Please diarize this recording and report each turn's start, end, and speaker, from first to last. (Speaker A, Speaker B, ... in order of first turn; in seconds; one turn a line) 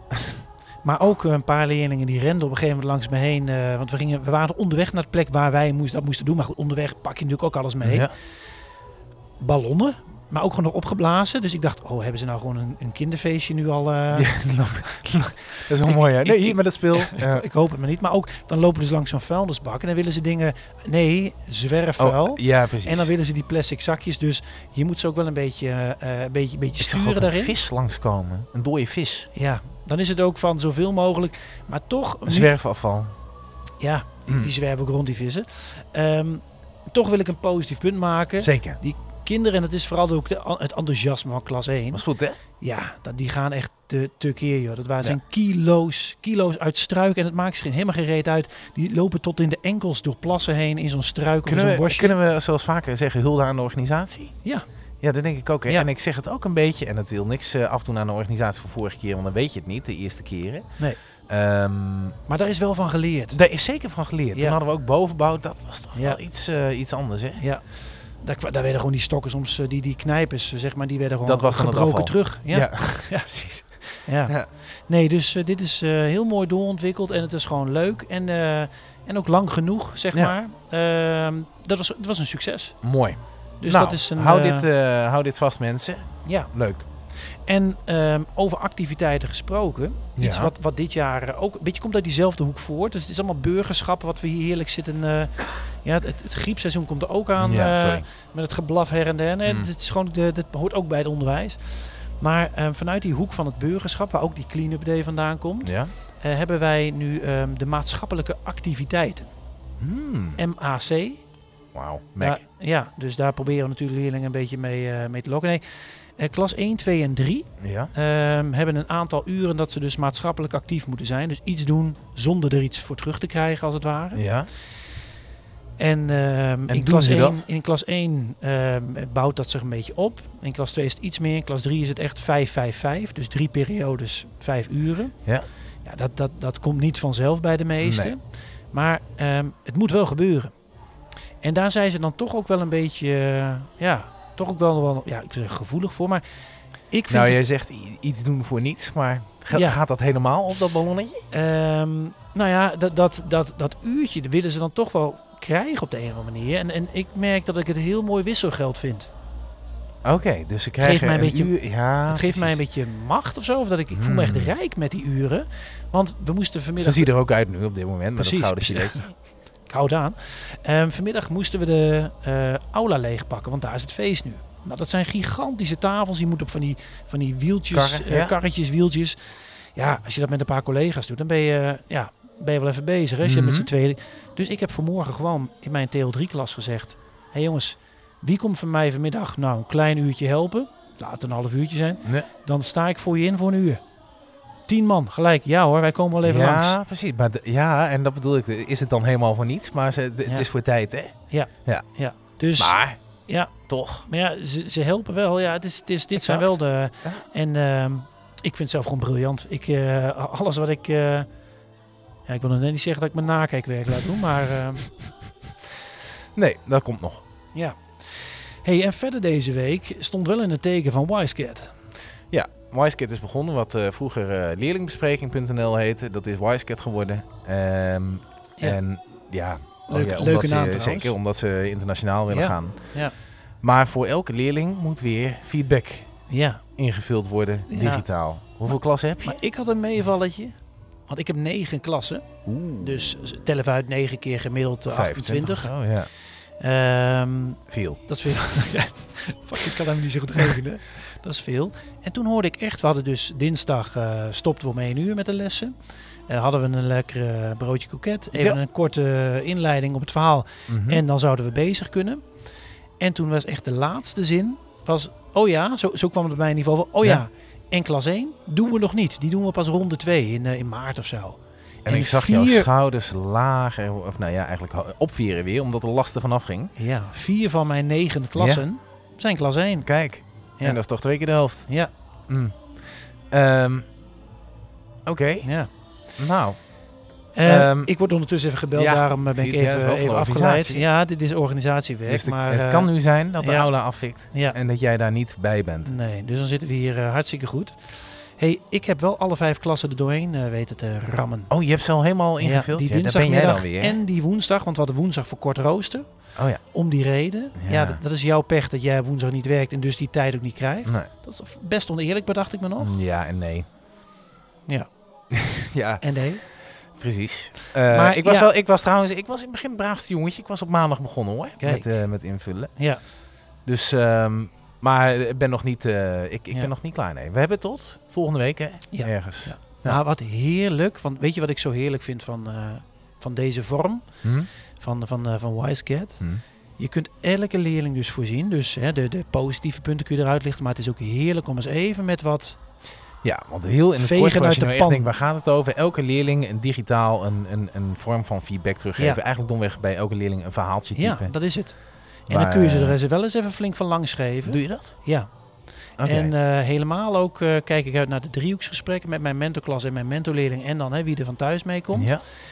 Speaker A: 0.8-8.1
Speaker B: 7.8-8.1
Speaker A: 9.4-14.3
Speaker B: 14.1-17.5
Speaker A: 15.8-27.5
Speaker B: 22.0-23.1
Speaker B: 26.8-29.3
Speaker A: 29.3-32.5
Speaker B: 32.2-33.1
Speaker A: 33.8-42.0
Speaker B: 34.3-34.5
Speaker B: 38.4-38.8
Speaker B: 41.9-42.4
Speaker A: 42.6-52.2
Speaker B: 51.4-54.3
Speaker B: 55.0-60.7
Speaker B: 61.3-62.1
Speaker A: 62.3-63.4
Speaker B: 63.3-67.4
Speaker A: 65.9-66.2
Speaker A: 67.4-67.6
Speaker A: 68.2-73.3
Speaker B: 71.2-74.5
Speaker A: 74.0-82.8
Speaker B: 82.8-86.8
Speaker A: 83.6-84.7
Speaker A: 86.2-86.5
Speaker A: 87.2-109.3
Speaker B: 90.2-90.5
Speaker B: 97.4-98.0
Speaker B: 105.6-105.9
Speaker B: 109.8-110.4
Speaker A: 110.4-111.2
Speaker B: 111.7-112.4
Speaker A: 112.2-115.6
Speaker A: 116.2-124.2
Speaker B: 117.6-117.9
Speaker B: 124.1-124.5
Speaker A: 125.8-135.2
Speaker B: 126.7-127.4
Speaker A: 135.8-140.5
Speaker B: 137.8-138.1
Speaker A: 141.4-146.2
Speaker A: 146.9-147.4
Speaker B: 147.1-151.2
Speaker A: 149.5-149.8
Speaker A: 151.3-159.1
Speaker B: 160.0-162.6
Speaker A: 160.8-161.5
Speaker A: 162.1-167.1
Speaker B: 163.9-164.5
Speaker B: 166.8-169.1
Speaker A: 168.2-169.1
Speaker A: 169.7-193.8
Speaker B: 177.7-178.3
Speaker B: 183.2-183.7
Speaker B: 192.0-192.3
Speaker A: 194.7-196.8
Speaker B: 196.2-201.1
Speaker A: 201.3-203.5
Speaker B: 202.6-203.0
Speaker B: 203.7-204.1
Speaker A: 204.1-211.3
Speaker B: 206.2-207.2
Speaker A: 212.3-214.9
Speaker B: 216.3-217.2
Speaker A: 217.5-221.7
Speaker B: 222.3-232.9
Speaker A: 229.9-231.1
Speaker A: 232.3-233.1
Speaker B: 233.6-236.1
Speaker A: 236.3-236.6
Speaker B: 236.8-239.4
Speaker A: 237.7-238.1
Speaker A: 238.7-240.6
Speaker A: 241.1-242.2
Speaker B: 242.4-243.2
Speaker A: 242.8-245.7
Speaker B: 244.9-246.1
Speaker A: 246.6-262.2
Speaker B: 247.7-248.0
Speaker B: 258.3-258.6
Speaker B: 260.7-261.0
Speaker A: 263.0-272.7
Speaker B: 271.8-276.7
Speaker A: 276.8-279.9
Speaker B: 278.4-278.6
Speaker B: 279.8-281.7
Speaker B: 282.3-283.9
Speaker B: 285.1-285.5
Speaker A: 285.4-285.7
Speaker B: 286.1-286.6
Speaker A: 287.3-294.6
Speaker B: 287.4-287.9
Speaker B: 288.7-290.9
Speaker B: 292.1-295.9
Speaker A: 295.8-301.5
Speaker B: 301.5-304.0
Speaker A: 302.4-306.1
Speaker B: 306.4-306.6
Speaker A: 306.6-312.9
Speaker B: 307.5-308.0
Speaker B: 312.8-313.6
Speaker B: 315.3-316.1
Speaker A: 316.0-316.4
Speaker B: 316.9-322.7
Speaker A: 317.9-318.5
Speaker A: 321.6-322.0
Speaker A: 322.8-323.0
Speaker B: 323.6-330.0
Speaker A: 328.9-334.0
Speaker B: 334.2-334.5
Speaker A: 334.8-336.2
Speaker A: 336.8-342.6
Speaker B: 343.2-351.4
Speaker A: 344.0-345.1
Speaker A: 350.9-351.8
Speaker B: 352.3-353.0
Speaker A: 352.3-355.3
Speaker B: 354.4-355.0
Speaker B: 356.0-356.3
Speaker A: 356.0-362.2
Speaker B: 361.9-362.2